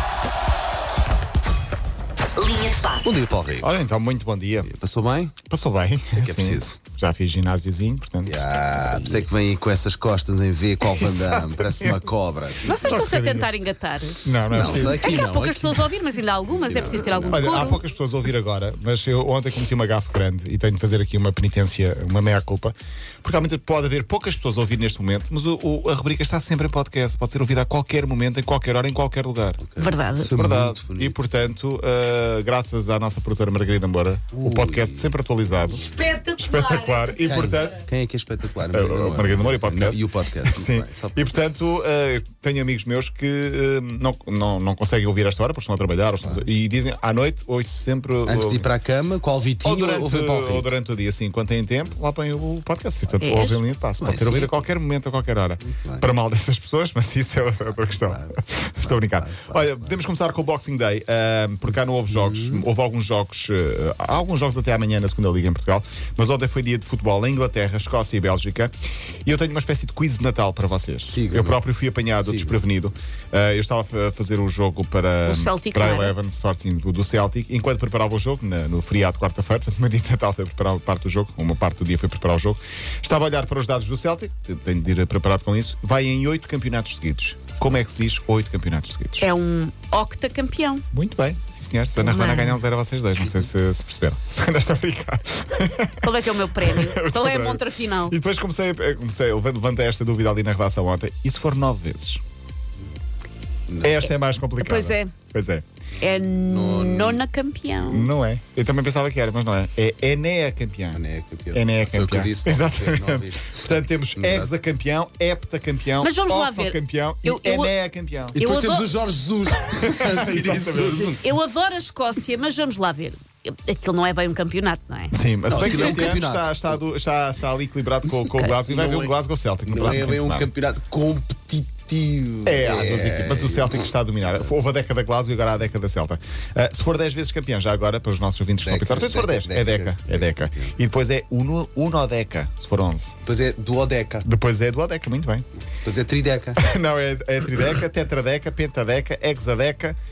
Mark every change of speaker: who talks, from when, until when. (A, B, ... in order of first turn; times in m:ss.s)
0:02.8-0:03.7 A
0:03.6-0:04.7 B
0:04.6-0:05.3 A
0:05.5-0:09.2 B
0:06.1-0:06.8 A
0:08.2-0:13.0 A
0:10.9-0:12.0 B
0:12.6-0:17.8 C
0:12.7-0:13.5 B
0:14.2-0:15.1 B
0:14.5-0:15.9 A
0:16.5-0:17.7 A
0:17.3-0:29.6 B
0:29.6-0:31.2 A
0:29.8-0:30.3 C
0:30.3-0:37.8 B
0:34.3-0:35.1 A
0:37.2-0:41.3 A
0:38.7-0:48.7 B
0:46.2-0:46.5 A
0:48.2-0:50.7 A
0:49.6-1:08.7 B
0:53.2-0:53.6 C
0:54.0-0:54.6 A
0:55.6-0:56.1 A
0:57.8-1:00.0 A
1:02.1-1:02.6 A
1:09.2-1:29.3 B
1:11.1-1:11.6 A
1:12.2-1:12.6 A
1:15.2-1:16.2 C
1:29.2-1:30.8 C
1:30.9-1:42.2 B
1:32.0-1:32.6 C
1:36.0-1:38.2 C
1:43.7-1:44.0 A
1:43.8-1:45.6 B
1:44.0-1:45.1 C
1:46.0-1:47.2 A
1:46.0-1:48.1 C
1:47.8-1:51.0 B
1:50.9-1:54.6 A
1:51.5-1:58.4 B
1:56.0-1:57.7 C
1:58.3-2:01.3 A
1:58.3-1:58.9 C
1:59.8-2:01.3 B
2:01.2-2:06.1 C
2:05.1-2:10.5 B
2:05.5-2:06.7 A
2:08.6-2:09.1 A
2:09.6-2:14.5 A
2:12.4-2:23.2 B
2:18.6-2:20.7 A
2:23.2-2:24.3 A
2:24.2-2:25.4 B
2:25.8-2:26.6 A
2:26.6-2:30.0 B